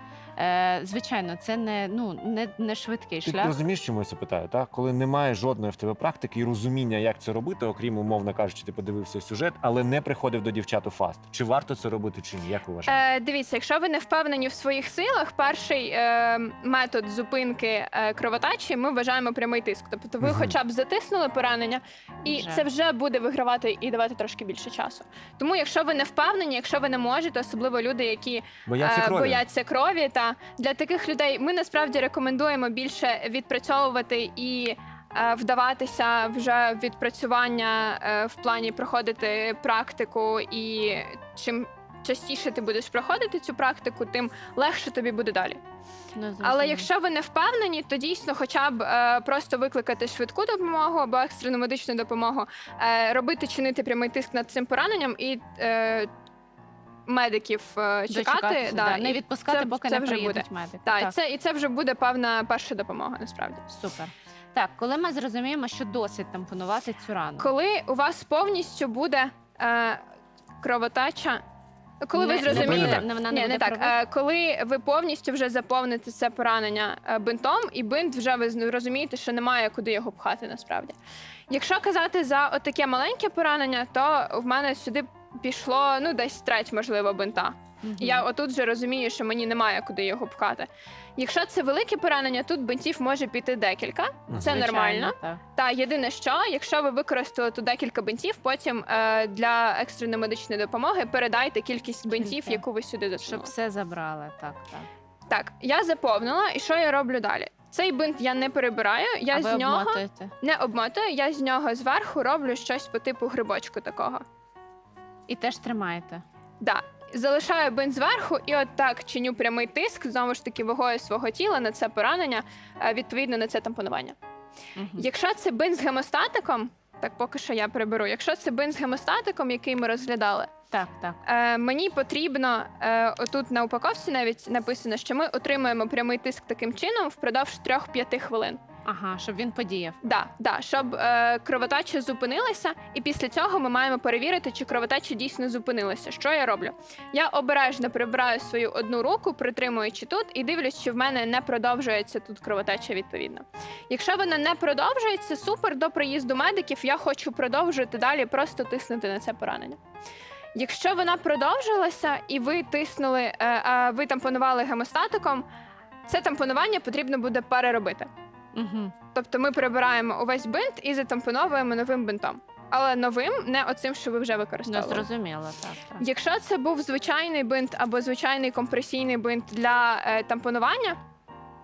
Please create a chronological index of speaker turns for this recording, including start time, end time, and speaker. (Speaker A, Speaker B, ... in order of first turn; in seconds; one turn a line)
Speaker A: 0.4-3.6
Speaker B: 3.2-13.0
Speaker C: 12.9-45.6
Speaker B: 20.2-20.5
Speaker A: 22.2-22.7
Speaker B: 28.7-29.4
Speaker A: 46.1-46.9
Speaker C: 46.4-56.1
Speaker C: 57.1-63.6
Speaker A: 58.1-61.1
Speaker A: 63.7-67.5
Speaker C: 67.4-70.0
Speaker C: 70.6-71.4
Speaker C: 72.0-80.9
Speaker A: 72.2-74.0
Speaker B: 72.5-73.1
Speaker C: 81.5-103.5
Speaker A: 87.8-88.3
Speaker B: 94.3-94.6
Speaker A: 94.3-95.4
Speaker A: 102.1-102.6
Speaker A: 103.2-104.9
Speaker C: 105.3-114.2
Speaker A: 109.3-110.3
Speaker A: 115.3-116.2
Speaker C: 116.6-124.2
Speaker A: 124.8-125.1
Speaker C: 125.0-130.5
Speaker A: 130.7-131.2
Speaker C: 131.3-138.6
Speaker A: 138.8-140.0
Speaker C: 140.0-159.8
Speaker C: 160.6-165.4
Speaker C: 166.1-168.1
Speaker A: 168.6-168.9
Speaker C: 169.2-175.1
Speaker A: 174.7-176.0
Speaker C: 176.0-181.0